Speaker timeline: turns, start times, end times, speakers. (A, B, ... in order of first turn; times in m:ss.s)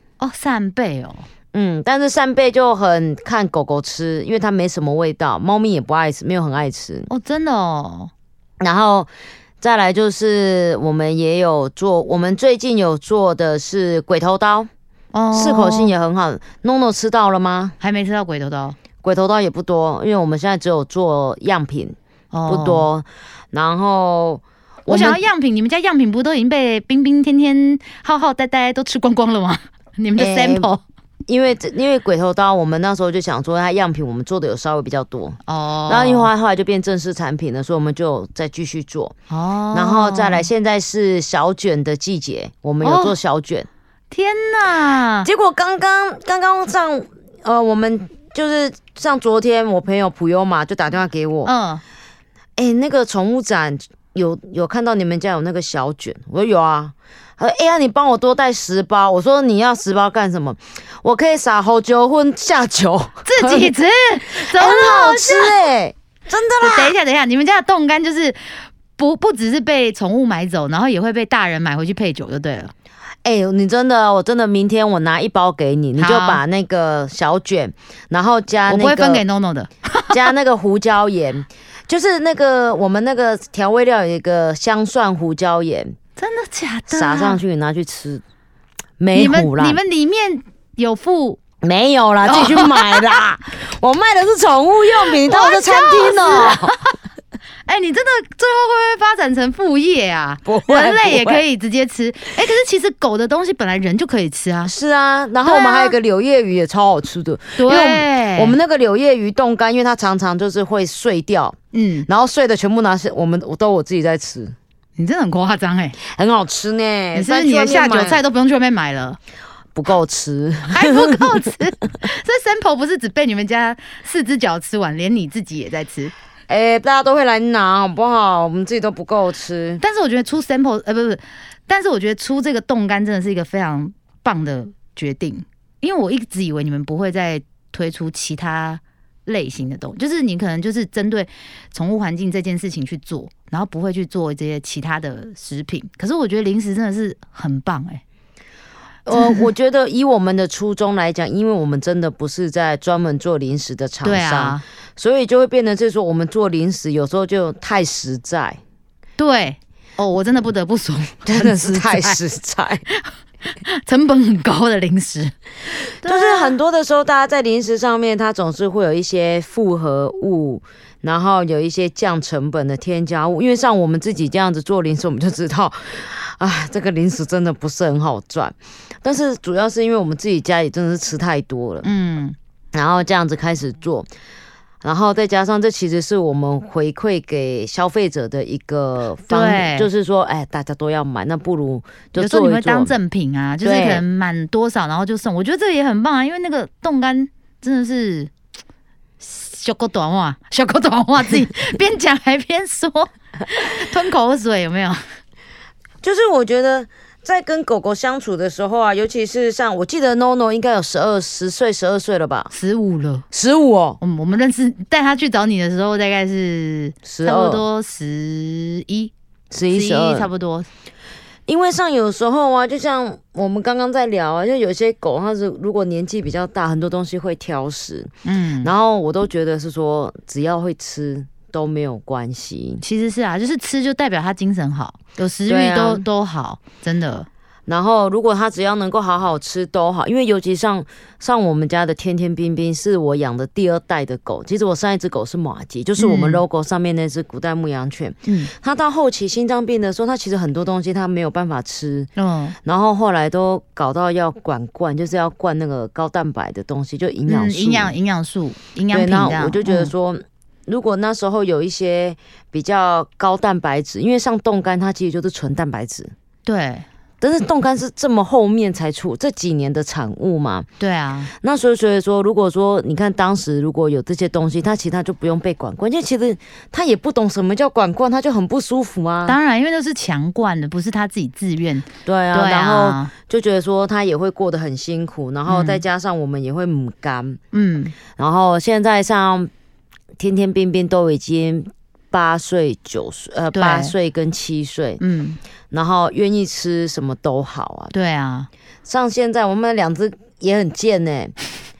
0:00.2-0:01.2 A
0:01.5-0:07.1 B
0:07.1-0:08.1 A
0:08.6-0:09.1 B
0:09.6-0:14.7 B
0:15.1-0:15.9 A
0:15.3-0:17.8 B
0:17.8-0:18.8 A
0:19.0-0:22.0 B
0:22.3-0:22.9 A
0:22.5-0:25.2 B
0:24.9-0:30.8 A
0:30.2-0:30.7 B
0:31.3-0:39.1 B
0:35.4-0:36.3 A
0:39.3-0:40.5 A
0:39.7-0:43.7 B
0:42.8-0:43.2 A
0:44.1-0:45.3 A
0:45.2-0:51.5 B
0:51.4-0:51.8 A
0:52.6-1:03.7 B
1:03.2-1:05.5 A
1:04.3-1:06.9 B
1:06.6-1:12.7 A
1:13.2-1:19.2 B
1:16.0-1:16.4 A
1:18.7-1:20.2 A
1:20.1-1:26.0 B
1:26.2-1:27.4 A
1:26.9-1:28.2 B
1:29.0-1:29.8 B
1:29.1-1:31.4 A
1:31.6-1:36.7 B
1:32.2-1:33.2 A
1:35.2-1:36.9 A
1:37.6-1:44.7 A
1:40.4-1:41.4 B
1:44.6-1:54.5 B
1:45.4-1:46.0 A
1:47.6-1:48.6 A
1:51.7-1:52.1 A
1:55.0-1:56.0 A
1:56.1-1:58.2 B
1:57.1-1:59.2 A
1:59.7-2:01.3 B
2:00.7-2:06.1 A
2:06.5-2:09.8 B
2:09.8-2:28.0 A
2:29.0-2:38.6 B
2:29.1-2:29.4 A
2:34.0-2:34.6 A
2:39.2-2:42.2 A
2:41.2-2:42.8 B
2:43.6-2:45.3 A
2:46.0-2:46.6 A
2:46.0-3:01.9 B
3:01.8-3:02.4 A
3:02.7-3:04.1 B
3:04.8-3:12.9 B
3:09.3-3:09.9 A
3:12.2-3:18.3 A
3:13.6-3:14.0 B
3:19.2-3:25.0 A
3:26.0-3:32.5 B
3:32.5-3:33.2 A
3:33.3-3:34.0 B
3:34.0-3:39.1 A
3:37.0-3:37.6 B
3:39.5-3:40.3 B
3:39.7-3:40.7 A
3:41.5-3:52.8 B
3:48.2-3:48.7 A
3:52.8-3:57.3 A
3:55.5-3:56.1 B
3:57.7-4:12.1 B
4:06.0-4:06.4 A
4:08.2-4:08.5 A
4:12.2-4:12.6 A
4:12.6-4:17.9 B
4:17.3-4:19.9 A
4:18.9-4:26.1 B
4:26.4-4:26.9 A
4:27.2-4:30.7 B
4:30.8-4:31.3 A
4:31.4-4:39.4 B
4:39.2-4:43.1 A
4:42.0-4:47.4 B
4:45.5-4:45.8 A
4:47.5-4:48.0 A
4:48.2-4:49.5 B
4:50.2-4:55.0 B
4:53.5-4:53.9 A
4:55.0-4:55.4 A
4:55.7-4:57.9 B
4:57.9-4:58.5 A
4:58.8-5:01.3 B